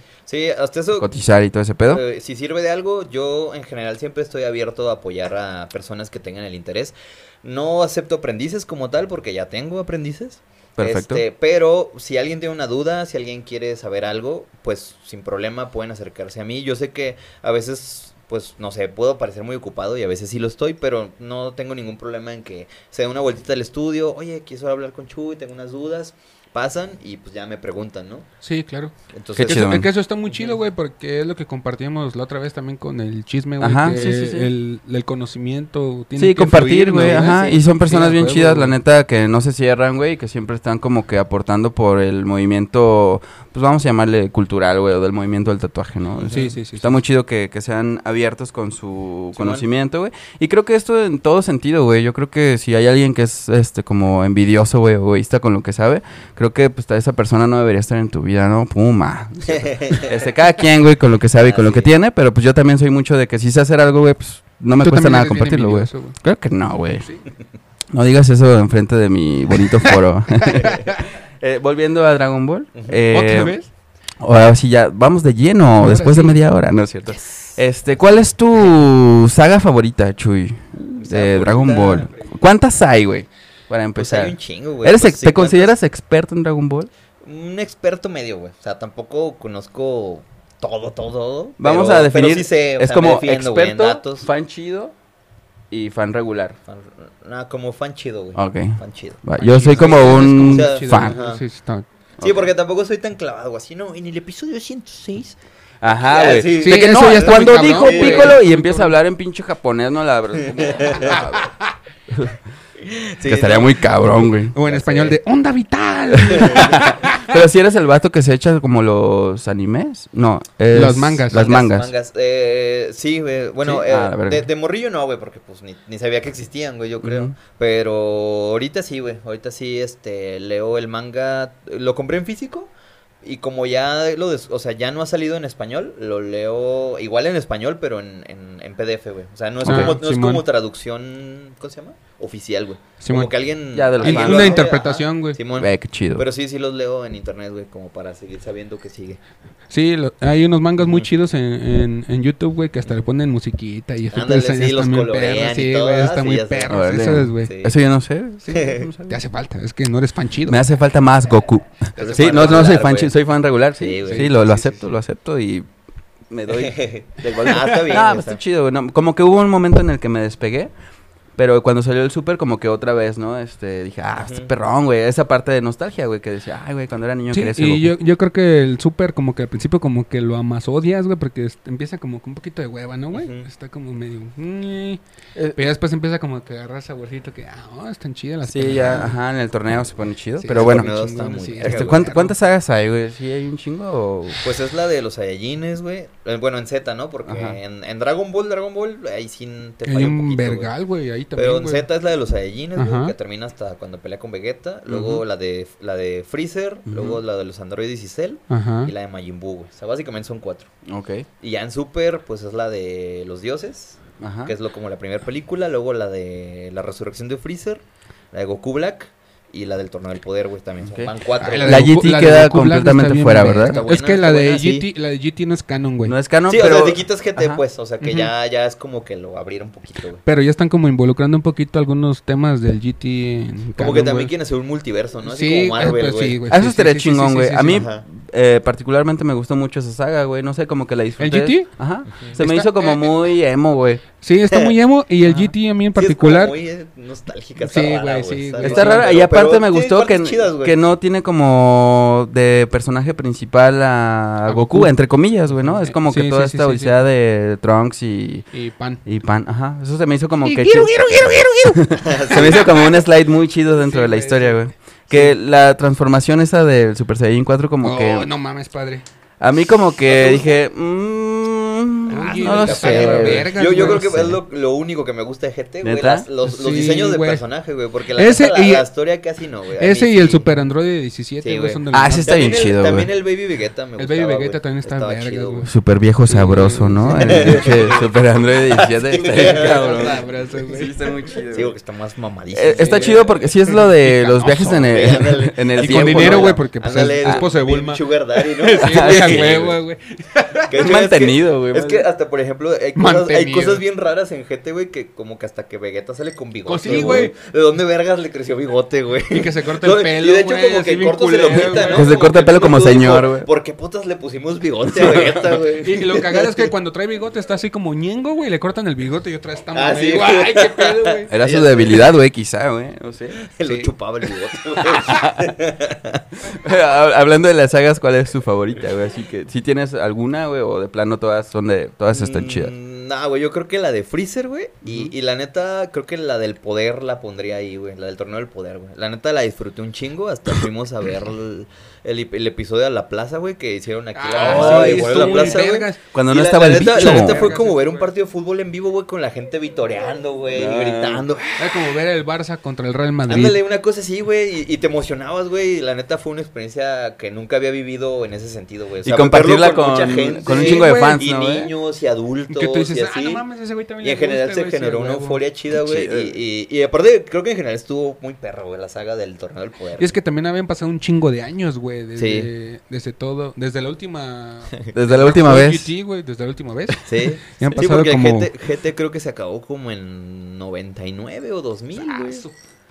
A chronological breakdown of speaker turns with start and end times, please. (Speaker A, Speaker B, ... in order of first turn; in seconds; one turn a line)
Speaker A: 0.3-1.1
Speaker B: 1.0-2.0
Speaker A: 1.9-28.3
Speaker B: 10.8-11.2
Speaker C: 28.4-38.7
Speaker A: 29.1-29.7
Speaker B: 29.4-29.9
Speaker A: 30.3-30.6
Speaker B: 33.6-34.5
Speaker B: 36.2-67.1
Speaker C: 46.3-47.0
Speaker A: 49.3-49.6
Speaker A: 59.5-60.2
Speaker A: 61.4-61.9
Speaker C: 64.8-66.2
Speaker B: 67.9-73.5
Speaker C: 70.4-71.0
Speaker A: 72.7-73.0
Speaker C: 73.1-73.7
Speaker B: 74.2-86.9
Speaker C: 75.8-76.4
Speaker A: 77.1-77.6
Speaker A: 80.8-82.1
Speaker A: 84.0-85.7
Speaker A: 87.2-94.3
Speaker B: 91.6-94.9
Speaker B: 95.7-96.6
Speaker A: 96.7-101.4
Speaker B: 98.3-101.2
Speaker C: 99.4-101.9
Speaker A: 102.2-105.4
Speaker B: 102.2-102.5
Speaker B: 105.8-111.5
Speaker A: 106.0-108.4
Speaker C: 106.6-109.0
Speaker A: 110.5-111.2
Speaker C: 111.1-111.5
Speaker B: 112.1-112.4
Speaker A: 112.8-114.0
Speaker B: 113.2-114.5
Speaker C: 114.5-117.3
Speaker A: 114.6-115.2
Speaker B: 116.2-121.9
Speaker A: 116.3-116.7
Speaker C: 120.7-121.5
Speaker A: 121.3-132.7
Speaker B: 123.6-124.5
Speaker B: 127.0-127.3
Speaker A: 133.2-149.2
Speaker C: 139.6-140.4
Speaker B: 139.6-139.9
Speaker C: 143.0-143.3
Speaker B: 143.7-144.7
Speaker C: 144.0-145.4
Speaker B: 145.5-146.2
Speaker C: 149.7-157.5
Speaker A: 154.1-157.8
Speaker B: 156.7-159.2
Speaker C: 158.4-160.6
Speaker A: 158.5-158.8
Speaker B: 160.5-165.7
Speaker A: 161.9-163.1
Speaker A: 163.8-164.8
Speaker C: 164.1-164.5
Speaker B: 166.3-170.7
Speaker A: 166.5-168.4
Speaker B: 171.4-177.9
Speaker A: 174.2-174.5
Speaker C: 177.3-185.0
Speaker A: 183.1-183.5
Speaker C: 185.5-189.1
Speaker B: 188.4-190.9
Speaker A: 188.8-189.1
Speaker C: 190.4-192.3
Speaker A: 190.5-192.1
Speaker B: 191.6-194.4
Speaker A: 194.4-200.7
Speaker B: 197.2-197.6
Speaker C: 199.8-201.8
Speaker A: 201.3-210.7
Speaker C: 202.8-203.1
Speaker B: 204.9-205.2
Speaker B: 206.9-207.2
Speaker C: 208.5-208.9
Speaker B: 210.8-211.2
Speaker A: 211.4-221.9
Speaker B: 214.2-214.5
Speaker B: 220.8-223.8
Speaker C: 221.4-226.2
Speaker A: 223.7-224.9
Speaker B: 226.0-227.6
Speaker A: 226.5-230.2
Speaker C: 228.0-228.3
Speaker C: 230.2-234.3
Speaker A: 233.8-236.4
Speaker C: 235.2-237.8
Speaker B: 236.5-244.0
Speaker A: 237.7-238.0
Speaker C: 241.2-243.2
Speaker C: 244.2-246.6
Speaker B: 245.3-245.5
Speaker A: 245.9-250.8
Speaker C: 247.6-249.1
Speaker B: 248.6-258.4
Speaker C: 254.4-254.9
Speaker C: 255.5-256.9
Speaker C: 258.5-259.0
Speaker B: 259.1-268.3
Speaker C: 260.4-262.8
Speaker A: 261.9-262.9
Speaker C: 263.7-265.3
Speaker C: 267.8-269.0
Speaker B: 269.4-274.4
Speaker A: 270.0-270.6
Speaker C: 272.1-274.3
Speaker A: 272.1-280.5
Speaker B: 275.8-276.3
Speaker C: 276.4-277.4
Speaker C: 278.1-278.9
Speaker C: 279.8-282.6
Speaker A: 281.4-285.7
Speaker B: 281.9-283.1
Speaker C: 284.0-285.7
Speaker B: 285.6-291.7
Speaker C: 286.3-287.8
Speaker A: 287.1-288.1
Speaker A: 288.7-290.2
Speaker C: 289.2-291.0
Speaker A: 291.5-293.3
Speaker B: 292.5-296.6
Speaker C: 292.7-300.8
Speaker A: 294.6-299.8
Speaker B: 298.8-299.7
Speaker A: 300.7-316.7
Speaker B: 300.8-302.1
Speaker C: 302.9-303.8
Speaker C: 306.6-307.3
Speaker B: 306.9-307.3
Speaker C: 309.3-312.3
Speaker B: 311.7-313.5
Speaker C: 315.8-321.3
Speaker A: 319.7-322.1
Speaker B: 321.3-323.4
Speaker A: 323.4-326.2
Speaker C: 323.6-323.9
Speaker B: 324.8-325.5
Speaker B: 326.4-332.7
Speaker A: 332.1-351.9
Speaker C: 344.1-346.0
Speaker B: 344.4-345.6
Speaker B: 346.1-347.5
Speaker C: 346.6-348.1
Speaker B: 350.5-351.3
Speaker C: 351.6-353.6
Speaker A: 353.3-363.4
Speaker B: 359.0-361.7
Speaker C: 360.5-361.2
Speaker C: 362.5-365.4
Speaker A: 364.0-370.1
Speaker B: 365.7-366.4
Speaker C: 370.0-378.5
Speaker A: 372.1-372.5
Speaker B: 374.9-375.9
Speaker A: 377.1-382.4
Speaker C: 381.9-382.6